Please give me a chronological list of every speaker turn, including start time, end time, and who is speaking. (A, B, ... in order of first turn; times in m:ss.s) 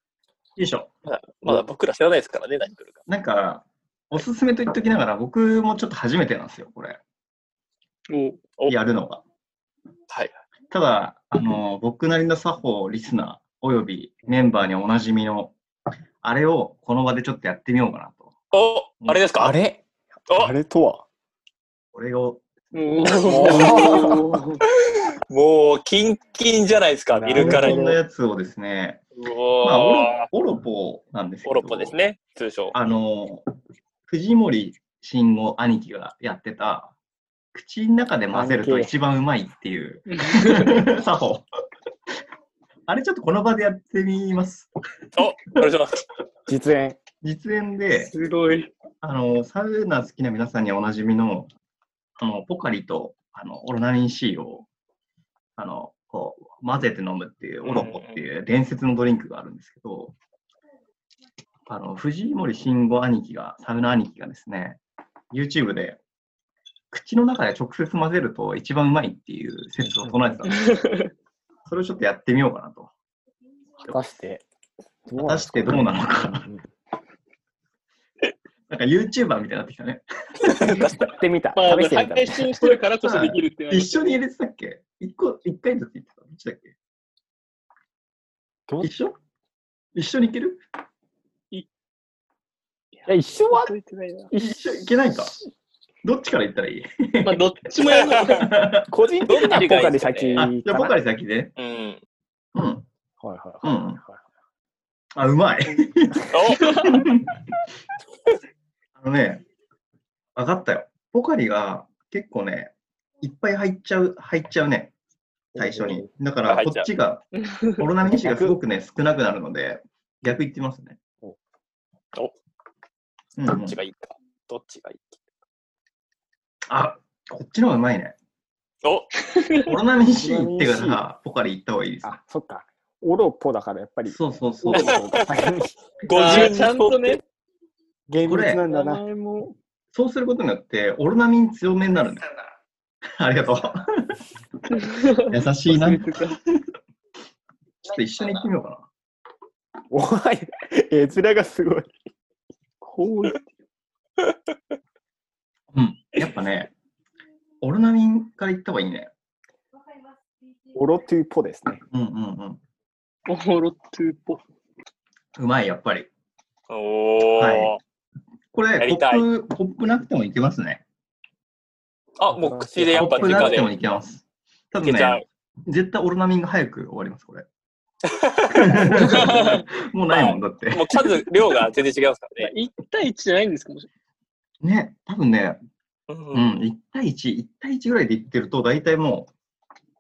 0:00.6-0:00.9 A
0:01.0-0:03.0 B
0:03.1-0:07.0 A
0:08.1-0:08.4 C
0:08.7-0:09.2 A
0:10.7-0:15.6 A
0:16.2-0:18.3 A
0:18.5-0:19.5 B
0:19.4-0:21.1 D
0:21.9-0:22.4 A
0:22.7-0:24.6 C
0:23.0-0:24.1 B
0:23.3-0:24.3 D
0:25.3-0:27.8 B
0:27.1-0:28.0 D
0:27.3-0:29.0 A
0:29.2-0:30.3 B
0:29.6-0:32.0 A
0:31.4-0:32.8 B
0:32.7-0:33.4 A
0:34.1-0:36.9 A
0:37.5-0:41.5 A
0:38.3-0:38.9 D
0:40.1-0:40.8 C
0:42.9-0:44.7 A
0:45.2-0:46.0 B
0:46.5-0:47.0 D
0:47.2-0:48.1 A
0:47.9-0:48.7 C
0:49.0-0:51.5 A
0:52.2-0:54.7 A
0:55.6-1:00.2 A
0:57.6-0:58.2 B
1:01.7-1:04.8 A
1:05.3-1:06.0 A
1:06.9-1:10.7 A
1:09.8-1:10.4 D
1:10.5-1:11.1 C
1:11.7-1:12.9 A
1:13.9-1:14.4 D
1:15.1-1:16.7 D
1:15.2-1:16.5 A
1:18.7-1:21.0 A
1:20.4-1:21.1 B
1:21.0-1:22.8 D
1:21.6-1:24.2 C
1:23.0-1:26.7 A
1:28.8-1:29.2 A
1:30.0-1:30.6 A
1:33.0-1:34.3 C
1:33.1-1:33.7 D
1:34.3-1:34.6 D
1:34.3-1:35.4 A
1:36.0-1:38.9 A
1:37.2-1:38.5 C
1:37.9-1:38.4 B
1:38.9-1:41.0 D
1:39.2-1:40.5 B
1:40.4-1:41.5 A
1:41.6-1:42.0 B
1:42.6-1:42.9 A
1:43.2-1:44.2 D
1:43.6-1:44.0 A
1:45.2-1:47.3 A
1:46.3-1:47.0 B
1:49.0-1:49.4 A
1:50.4-1:54.9 A
1:55.6-1:56.1 D
1:55.6-2:01.0 A
1:56.5-1:56.9 B
1:57.4-1:57.8 C
1:58.1-1:58.6 D
2:03.4-2:03.8 A
2:03.5-2:05.2 B
2:06.7-2:08.2 A
2:08.8-2:09.1 B
2:09.2-2:09.7 C
2:09.7-2:12.2 A
2:10.1-2:11.0 D
2:12.0-2:15.7 D
2:14.1-2:15.2 A
2:14.8-2:15.3 B
2:16.1-2:17.2 B
2:16.1-2:17.2 C
2:16.2-2:16.5 A
2:18.1-2:19.0 D
2:18.2-2:18.6 A
2:18.7-2:19.6 C
2:19.9-2:22.3 A
2:23.2-2:24.2 A
2:24.7-2:26.4 C
2:25.1-2:26.6 A
2:27.8-2:28.9 A
2:29.9-2:31.9 D
2:32.8-2:33.5 C
2:35.7-2:36.7 A
2:37.6-2:39.1 A
2:40.8-2:41.8 D
2:41.9-2:42.6 A
2:43.3-2:44.4 C
2:45.4-2:46.1 A
2:46.7-2:47.8 B
2:47.4-2:47.8 A
2:48.5-2:50.8 A
2:48.8-2:49.2 B
2:52.2-2:53.7 B
2:52.3-2:53.7 D
2:52.9-2:57.5 A
2:54.8-2:55.2 B
2:58.1-3:02.5 B
2:58.5-3:01.3 A
2:59.0-2:59.6 C
3:02.4-3:03.9 C
3:04.6-3:05.6 A
3:06.1-3:06.6 B
3:06.3-3:09.3 A